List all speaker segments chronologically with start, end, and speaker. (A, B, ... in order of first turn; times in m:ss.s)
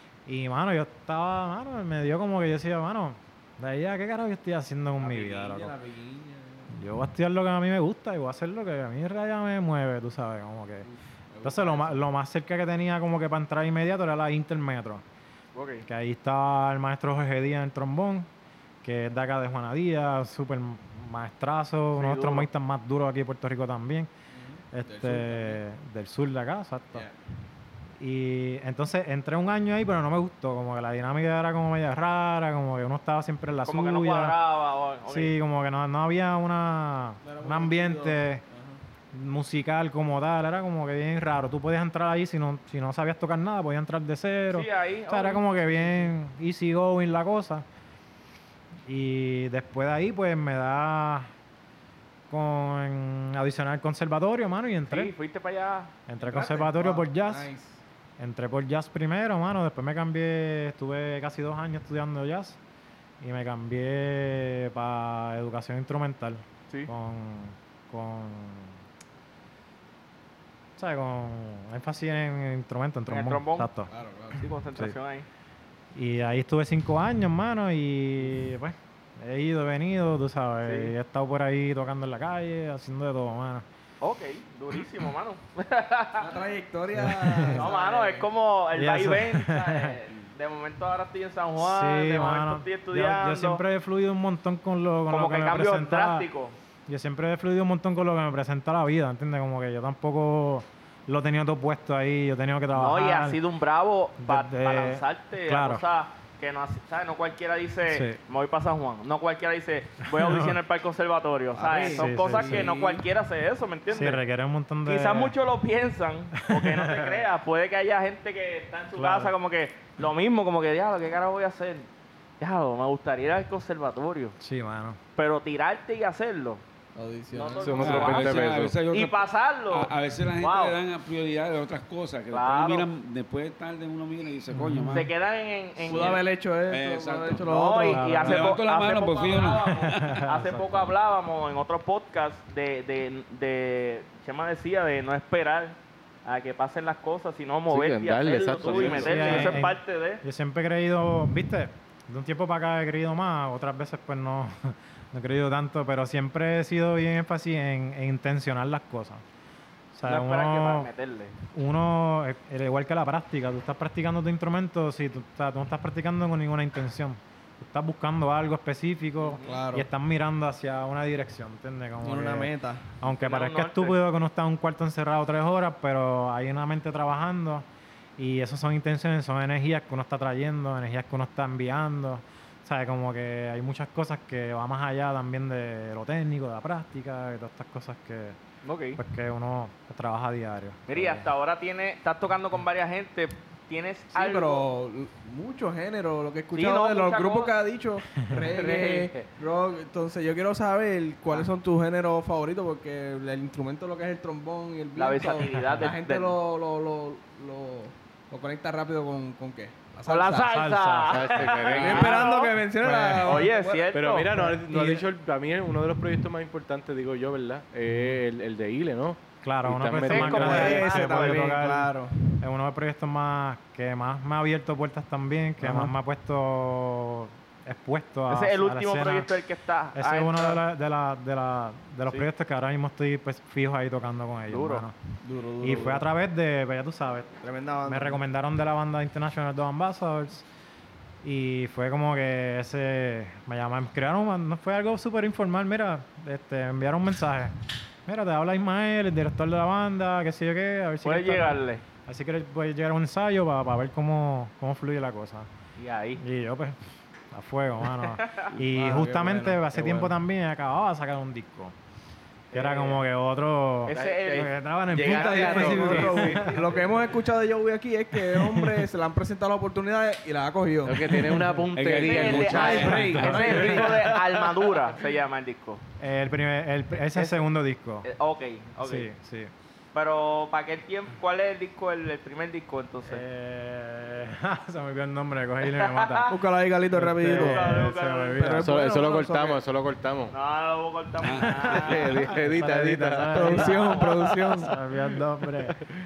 0:00.2-0:05.7 A
0:05.0-0:06.8 B
0:06.7-0:10.9 A
0:10.9-0:12.0 B
0:11.4-0:15.0 A
0:15.5-0:15.8 C
0:15.8-0:18.3 A
0:18.8-0:24.1 A
0:21.9-0:22.5 C
0:24.3-0:25.6 B
0:24.7-0:27.0 A
0:28.0-0:34.4 A
0:33.6-0:35.3 C
0:35.0-0:38.4 A
0:37.2-0:38.8 B
0:39.1-0:47.6 A
0:44.5-0:45.5 C
0:48.8-0:51.3 A
0:52.3-0:55.1 A
0:54.9-0:55.9 C
0:56.1-0:57.5 A
0:56.2-0:57.8 B
0:58.2-1:02.6 A
1:03.2-1:08.8 A
1:10.8-1:13.9 A
1:13.1-1:13.7 C
1:13.9-1:14.4 B
1:14.3-1:15.2 C
1:15.9-1:23.6 A
1:20.6-1:20.9 C
1:24.0-1:26.2 C
1:26.2-1:28.3 B
1:26.9-1:27.7 A
1:27.5-1:33.6 C
1:28.8-1:29.9 A
1:31.6-1:36.3 A
1:35.1-1:36.5 C
1:36.9-1:43.4 A
1:42.7-1:54.2 C
1:44.2-1:45.8 A
1:47.9-1:48.2 A
1:50.0-1:50.6 A
1:51.6-1:53.0 B
1:51.7-1:52.7 A
1:53.9-1:55.4 A
1:54.8-2:01.9 C
1:56.5-1:57.2 A
1:58.9-1:59.3 A
2:02.4-2:04.3 C
2:04.4-2:05.0 A
2:05.2-2:06.6 C
2:07.0-2:08.0 B
2:07.3-2:10.8 C
2:07.6-2:08.8 D
2:07.8-2:15.1 E
2:12.3-2:12.8 C
2:14.5-2:15.1 A
2:14.9-2:16.2 C
2:15.9-2:18.0 B
2:15.9-2:17.5 E
2:17.4-2:30.2 C
2:17.9-2:18.6 A
2:18.2-2:20.2 E
2:19.7-2:20.9 A
2:27.7-2:29.6 D
2:28.7-2:39.2 A
2:39.9-2:40.9 A
2:40.0-2:41.3 C
2:41.5-2:57.6 A
2:49.2-2:49.6 C
2:49.4-2:49.9 B
2:52.0-2:52.8 B
2:53.2-2:54.0 C
2:58.2-3:08.4 A
3:08.6-3:09.0 C
3:09.0-3:11.3 A
3:10.9-3:14.6 C
3:14.1-3:30.5 B
3:16.5-3:17.5 C
3:18.2-3:18.4 A
3:18.4-3:19.2 C
3:25.0-3:26.4 C
3:30.0-3:32.6 C
3:30.5-3:31.3 A
3:31.1-3:32.3 D
3:31.8-3:35.0 B
3:32.8-3:33.4 A
3:33.2-3:34.3 C
3:33.9-3:40.7 D
3:37.9-3:38.2 A
3:39.4-3:49.3 A
3:40.0-3:41.4 C
3:40.2-3:42.4 B
3:45.6-3:45.9 B
3:48.3-3:50.6 C
3:49.9-3:55.0 A
3:54.5-3:54.8 C
3:55.2-3:56.0 B
3:55.6-4:00.4 A
3:57.4-3:58.2 B
4:01.2-4:07.5 A
4:08.0-4:15.5 A
4:11.0-4:11.8 C
4:15.8-4:16.2 C
4:16.2-4:21.8 A
4:18.0-4:18.5 C
4:18.7-4:20.1 B
4:22.5-4:23.0 C
4:22.5-4:26.5 A
4:23.9-4:26.6 C
4:23.9-4:24.4 D
4:25.0-4:26.5 D
4:25.3-4:31.5 B
4:28.2-4:28.9 A
4:30.8-4:33.1 D
4:31.7-4:33.7 E
4:31.9-4:35.8 C
4:32.3-4:34.1 B
4:32.8-4:33.7 A
4:33.8-4:34.2 D
4:36.0-4:38.0 A
4:36.9-4:37.5 C
4:38.0-4:39.1 C
4:38.8-4:39.5 A
4:39.9-4:43.2 C
4:43.0-4:46.3 A
4:45.7-4:46.3 C
4:46.3-4:49.6 B
4:46.9-4:48.7 A
4:47.3-4:48.4 C
4:48.6-4:50.3 D
4:50.3-4:52.3 C
4:51.2-4:51.7 E
4:51.3-4:55.8 A
4:51.7-4:53.4 D
4:53.3-4:54.8 B
4:53.3-4:54.2 C